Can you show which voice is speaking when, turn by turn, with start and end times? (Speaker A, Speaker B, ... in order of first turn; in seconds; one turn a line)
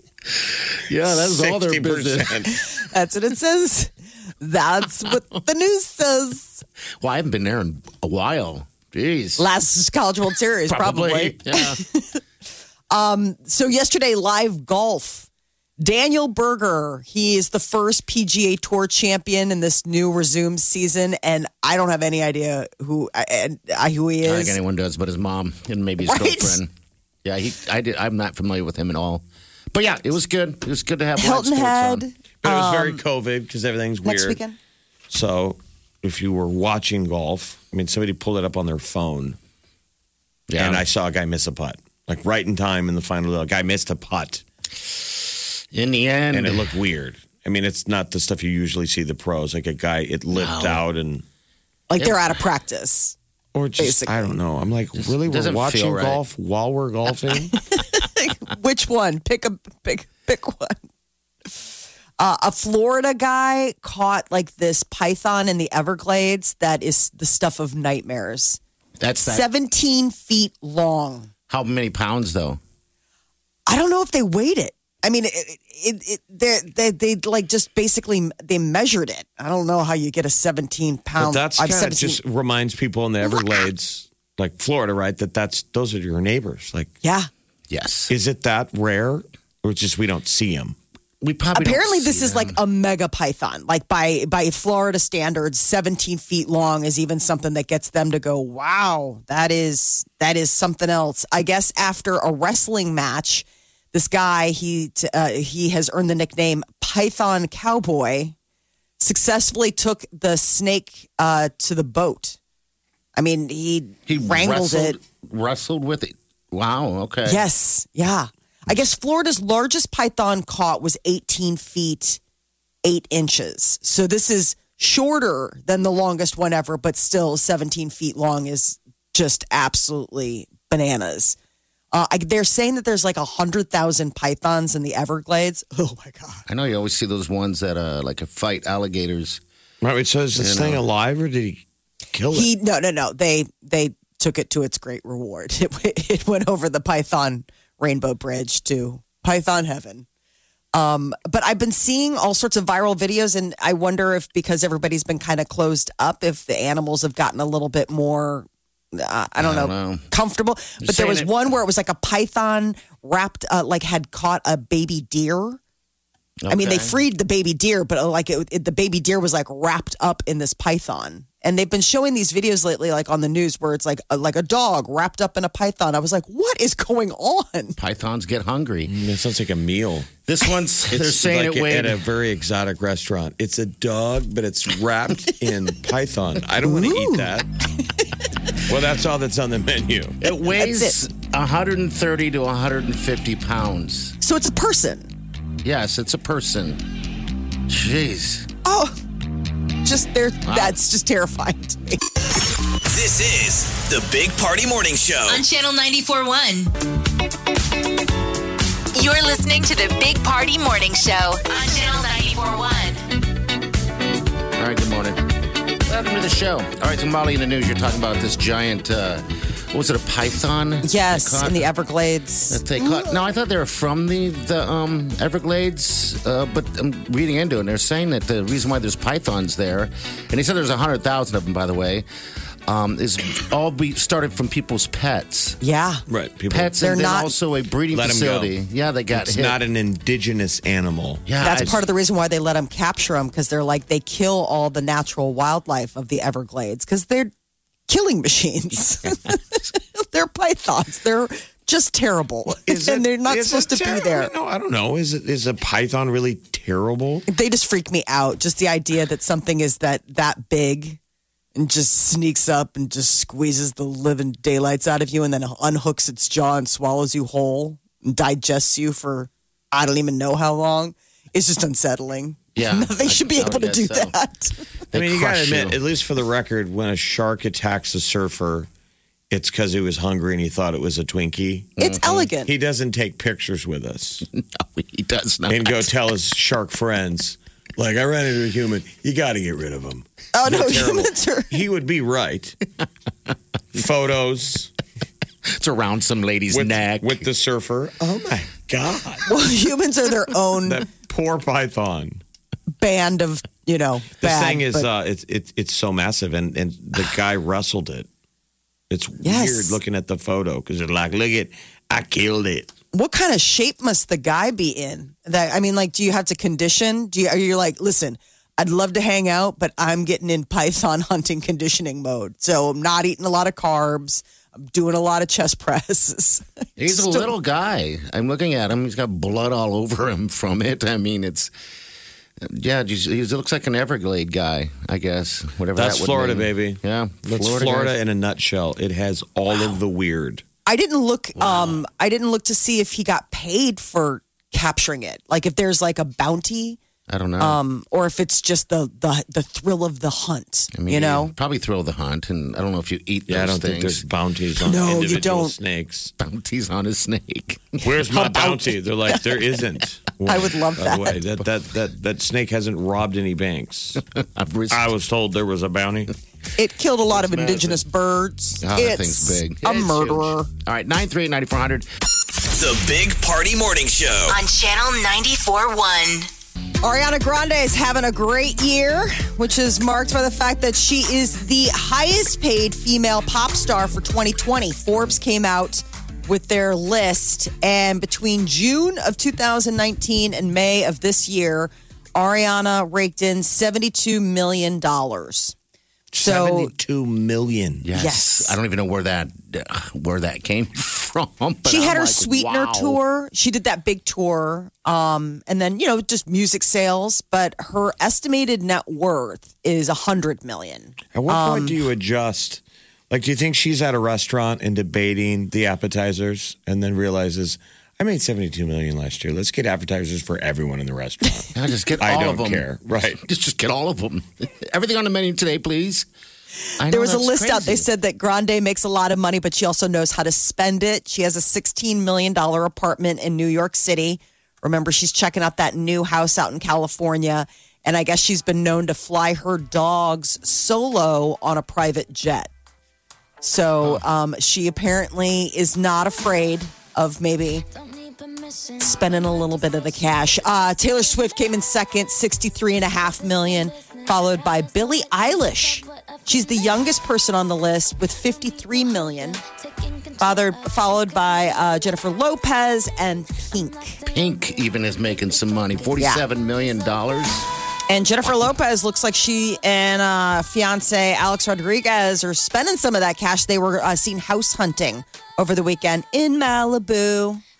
Speaker A: 0.4-2.5
Speaker B: 1.1-2.5
Speaker C: 2.7-6.6
Speaker A: 7.0-9.5
Speaker C: 9.4-12.2
Speaker A: 10.7-11.8
Speaker C: 12.9-15.3
Speaker C: 15.8-24.6
Speaker A: 24.2-26.7
Speaker C: 26.1-26.6
Speaker A: 27.2-32.0
Speaker C: 31.2-33.0
Speaker B: 32.4-34.4
Speaker C: 34.0-34.6
Speaker B: 35.1-39.4
Speaker A: 40.5-40.9
Speaker B: 40.6-44.4
Speaker A: 45.7-46.7
Speaker B: 46.3-51.2
Speaker A: 50.3-50.8
Speaker C: 51.9-53.1
Speaker A: 52.0-52.3
Speaker B: 53.5-57.5
Speaker C: 53.8-54.4
Speaker A: 55.0-56.2
Speaker C: 57.6-60.8
Speaker C: 62.2-68.6
Speaker A: 69.0-69.5
Speaker C: 69.2-71.3
Speaker A: 71.5-72.6
Speaker C: 73.7-82.2
Speaker B: 81.2-86.9
Speaker C: 87.0-87.3
Speaker A: 87.7-88.1
Speaker B: 88.1-90.8
Speaker A: 91.2-92.6
Speaker C: 91.5-108.3
Speaker C: 109.0-112.4
Speaker C: 113.2-115.0
Speaker A: 114.1-117.4
Speaker C: 117.3-122.2
Speaker C: 122.8-131.4
Speaker C: 131.9-136.4
Speaker A: 136.5-139.4
Speaker B: 139.8-141.6
Speaker A: 140.4-140.8
Speaker B: 142.1-142.5
Speaker C: 142.3-150.1
Speaker C: 150.7-165.6
Speaker A: 159.4-160.1
Speaker A: 160.8-161.3
Speaker A: 166.4-167.0
Speaker C: 166.5-177.8
Speaker A: 177.8-178.9
Speaker B: 178.9-180.1
Speaker A: 180.3-182.0
Speaker B: 180.9-187.5
Speaker C: 186.6-187.3
Speaker B: 188.6-190.2
Speaker A: 190.2-194.2
Speaker C: 190.6-191.0
Speaker C: 194.2-195.1
Speaker A: 195.6-196.8
Speaker A: 197.7-198.5
Speaker C: 198.7-198.9
Speaker C: 199.8-202.0
Speaker A: 200.4-200.8
Speaker D: 202.9-205.4
Speaker E: 205.3-206.7
Speaker E: 208.9-213.0
Speaker A: 214.6-215.2
Speaker A: 215.8-221.7
Speaker C: 220.8-223.2
Speaker A: 222.5-232.1
Speaker A: 232.7-235.6
Speaker C: 235.6-236.0
Speaker B: 236.1-236.8
Speaker A: 236.5-239.6
Speaker C: 236.8-237.3
Speaker B: 237.9-238.5
Speaker B: 239.1-241.7
Speaker A: 241.3-241.8
Speaker C: 241.4-247.3
Speaker C: 247.9-254.3
Speaker B: 252.5-257.3
Speaker C: 257.3-261.0
Speaker C: 261.6-274.6
Speaker A: 272.6-274.2
Speaker A: 274.9-275.8
Speaker B: 274.9-278.7
Speaker B: 279.3-281.8
Speaker C: 281.8-282.5
Speaker A: 281.8-282.3
Speaker B: 282.4-284.2
Speaker A: 284.3-285.9
Speaker B: 285.5-292.6
Speaker C: 290.3-291.6
Speaker B: 293.7-294.7
Speaker A: 295.5-297.3
Speaker B: 296.5-299.3
Speaker C: 299.3-300.9
Speaker B: 300.6-302.2
Speaker C: 302.8-304.9
Speaker B: 304.2-308.1
Speaker B: 308.9-312.7
Speaker C: 309.2-309.8
Speaker C: 312.9-327.3
Speaker A: 326.8-331.5
Speaker A: 332.4-337.9
Speaker B: 335.8-340.4
Speaker C: 340.7-346.8
Speaker A: 341.4-341.8
Speaker A: 347.1-347.6
Speaker C: 347.4-351.3
Speaker A: 350.7-354.1
Speaker B: 353.3-356.1
Speaker C: 354.6-355.6
Speaker A: 356.2-357.8
Speaker B: 357.8-364.0
Speaker C: 358.1-359.2
Speaker C: 360.3-361.1
Speaker A: 364.1-364.9
Speaker B: 364.7-366.1
Speaker C: 366.6-370.5
Speaker A: 367.1-367.8
Speaker A: 368.6-371.9
Speaker D: 372.5-374.4
Speaker E: 374.3-376.3
Speaker C: 376.8-395.6
Speaker B: 396.1-397.9
Speaker C: 396.2-396.7
Speaker A: 397.8-403.0
Speaker C: 398.0-398.6
Speaker C: 401.7-411.8
Speaker B: 411.1-423.2
Speaker A: 421.5-426.1
Speaker A: 426.8-427.9
Speaker C: 426.9-442.5
Speaker C: 443.4-447.6
Speaker C: 448.8-459.4
Speaker C: 460.2-464.0
Speaker A: 464.1-467.5
Speaker C: 466.0-466.2
Speaker C: 467.9-477.4